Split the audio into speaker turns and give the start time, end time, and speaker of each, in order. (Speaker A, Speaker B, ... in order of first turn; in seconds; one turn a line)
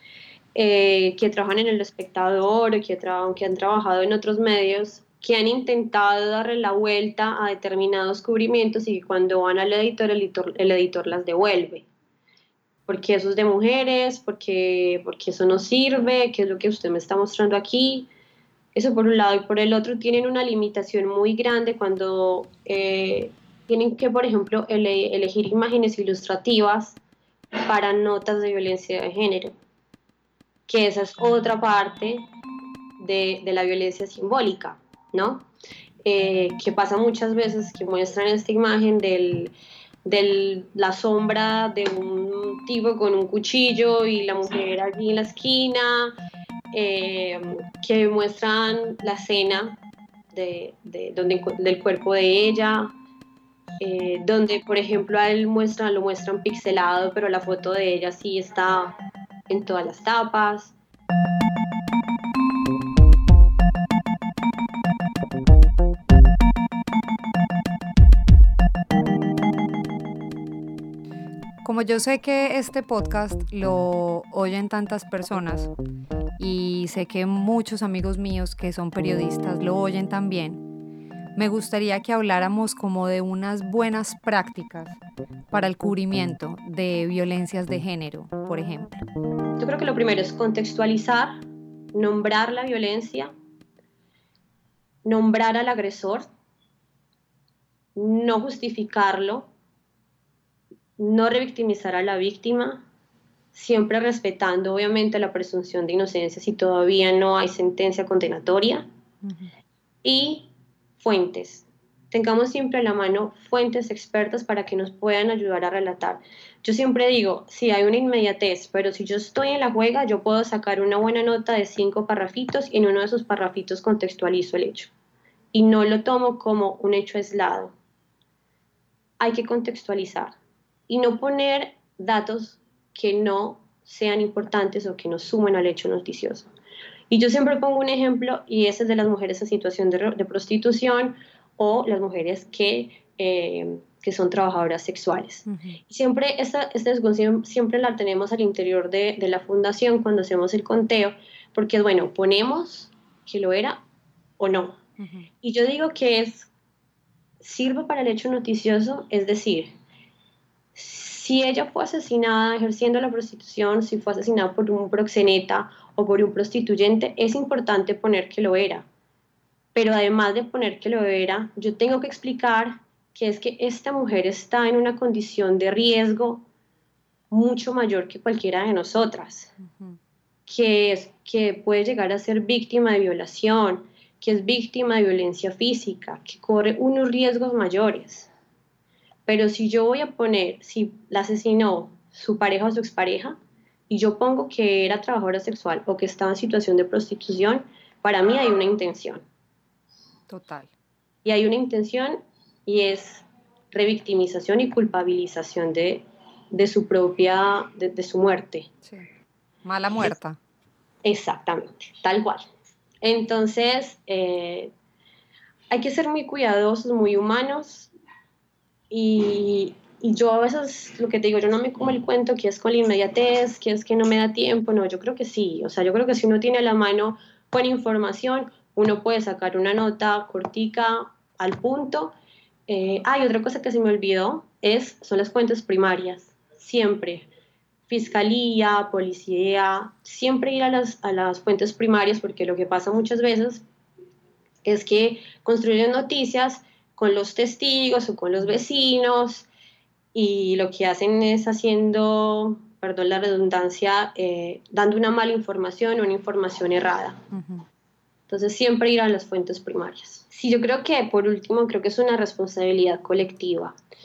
Speaker A: 0.5-11.9
Speaker A: 12.9-18.1
Speaker A: 18.7-27.0
Speaker A: 27.5-29.6
Speaker A: 30.7-32.2
Speaker A: 33.0-35.5
Speaker A: 36.0-39.5
Speaker A: 40.0-46.1
Speaker A: 46.7-49.8
Speaker A: 50.3-52.9
Speaker A: 53.8-59.0
Speaker A: 59.5-60.7
Speaker B: 71.6-75.7
Speaker B: 76.4-80.6
Speaker B: 81.3-89.0
Speaker A: 89.6-91.4
Speaker A: 91.9-93.3
Speaker A: 95.0-96.3
Speaker A: 98.0-99.5
Speaker A: 101.0-102.8
Speaker A: 103.5-108.8
Speaker B: 109.2-109.5
Speaker A: 110.0-124.9
Speaker A: 125.5-127.7
Speaker A: 129.2-130.3
Speaker A: 130.9-136.5
Speaker A: 137.1-153.8
Speaker B: 145.4-145.8
Speaker A: 154.4-154.8
Speaker B: 155.0-155.3
Speaker A: 155.4-156.5
Speaker A: 157.4-159.7
Speaker A: 160.7-168.8
Speaker A: 169.7-176.4
Speaker A: 177.3-179.5
Speaker B: 179.6-180.0
Speaker A: 180.5-188.3
Speaker A: 189.2-193.3
Speaker A: 193.9-199.2
Speaker B: 200.3-200.7
Speaker A: 201.2-208.7
Speaker B: 209.6-210.4
Speaker A: 211.0-212.4
Speaker A: 213.0-214.7
Speaker A: 215.7-217.9
Speaker A: 218.9-232.1
Speaker A: 232.7-237.3
Speaker A: 237.9-243.6
Speaker A: 244.6-249.5
Speaker A: 250.1-257.2
Speaker B: 257.3-257.6
Speaker A: 258.3-263.8